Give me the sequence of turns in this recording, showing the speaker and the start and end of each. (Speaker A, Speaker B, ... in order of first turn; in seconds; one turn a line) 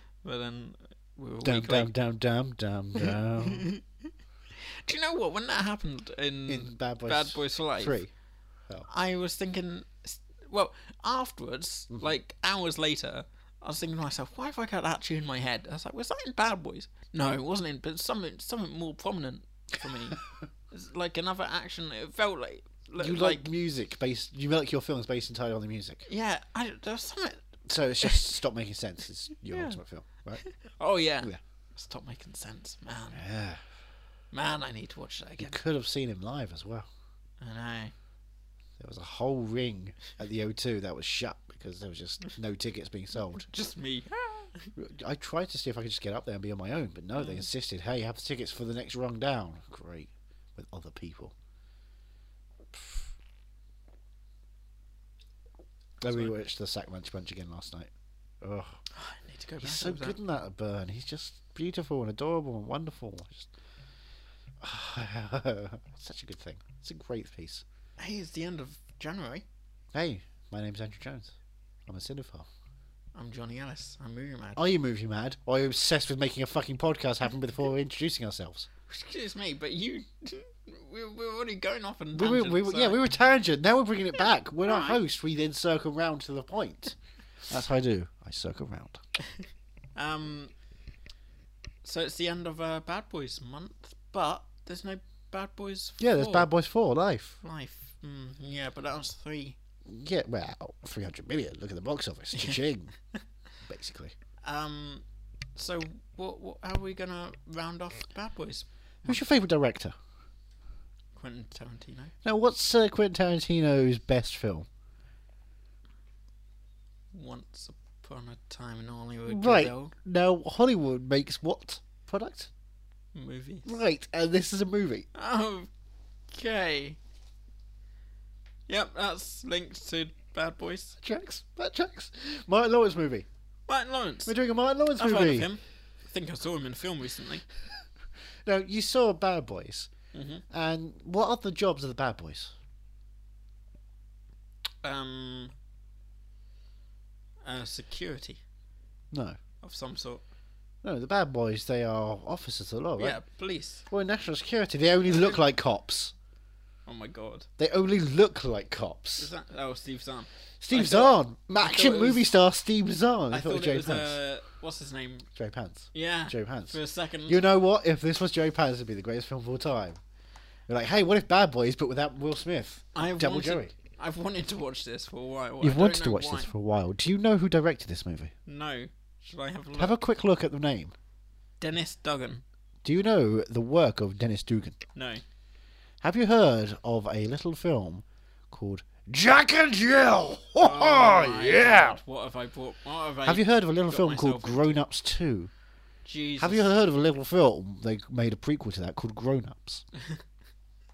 Speaker A: 0.2-1.9
Speaker B: 1.4-3.7
Speaker A: 3.4-3.8
Speaker A: 4.7-8.0
Speaker B: 6.5-8.1
Speaker A: 8.9-23.4
Speaker B: 23.0-26.1
Speaker A: 26.1-27.4
Speaker B: 27.6-30.4
Speaker A: 29.5-29.8
Speaker A: 30.4-33.2
Speaker B: 33.1-33.6
Speaker A: 34.3-35.6
Speaker B: 35.4-36.9
Speaker A: 37.4-37.9
Speaker B: 38.8-43.5
Speaker A: 43.4-44.7
Speaker B: 44.8-51.3
Speaker A: 47.1-47.5
Speaker B: 52.7-53.1
Speaker B: 56.0-58.8
Speaker A: 56.0-56.3
Speaker A: 58.9-60.2
Speaker B: 59.6-63.5
Speaker B: 64.6-67.6
Speaker A: 68.0-69.5
Speaker B: 69.9-71.3
Speaker B: 71.9-72.5
Speaker A: 73.1-74.7
Speaker B: 74.5-78.7
Speaker A: 78.9-83.0
Speaker B: 82.1-87.0
Speaker A: 84.7-85.0
Speaker B: 87.5-89.0
Speaker A: 90.0-90.5
Speaker A: 91.8-96.5
Speaker B: 96.0-97.4
Speaker A: 97.4-99.6
Speaker B: 99.8-102.9
Speaker B: 103.6-104.1
Speaker A: 104.4-105.0
Speaker A: 105.5-109.2
Speaker B: 109.0-109.9
Speaker A: 111.2-112.1
Speaker B: 112.2-114.7
Speaker A: 117.1-119.9
Speaker B: 119.3-122.5
Speaker A: 123.1-123.8
Speaker B: 123.7-125.1
Speaker A: 125.1-125.7
Speaker A: 126.3-127.0
Speaker A: 128.7-131.0
Speaker B: 131.0-133.3
Speaker A: 133.7-134.3
Speaker B: 134.2-135.5
Speaker A: 135.0-137.4
Speaker B: 138.4-139.9
Speaker A: 140.1-140.4
Speaker B: 140.5-142.5
Speaker A: 144.8-145.5
Speaker A: 147.4-148.4
Speaker B: 149.1-149.4
Speaker A: 149.6-150.2
Speaker B: 150.8-153.2
Speaker A: 153.0-153.8
Speaker B: 153.9-156.1
Speaker A: 155.1-155.4
Speaker A: 156.8-157.5
Speaker B: 157.6-159.3
Speaker A: 159.2-162.3
Speaker B: 160.6-164.2
Speaker A: 163.3-165.3
Speaker B: 165.3-170.0
Speaker A: 165.9-167.4
Speaker B: 170.7-173.7
Speaker A: 172.9-176.5
Speaker B: 175.6-178.3
Speaker A: 178.4-180.0
Speaker B: 179.8-180.9
Speaker A: 181.6-182.4
Speaker B: 182.8-184.8
Speaker A: 184.9-185.2
Speaker B: 186.0-192.0
Speaker A: 190.6-194.8
Speaker B: 193.2-195.5
Speaker A: 196.0-196.6
Speaker B: 196.4-199.8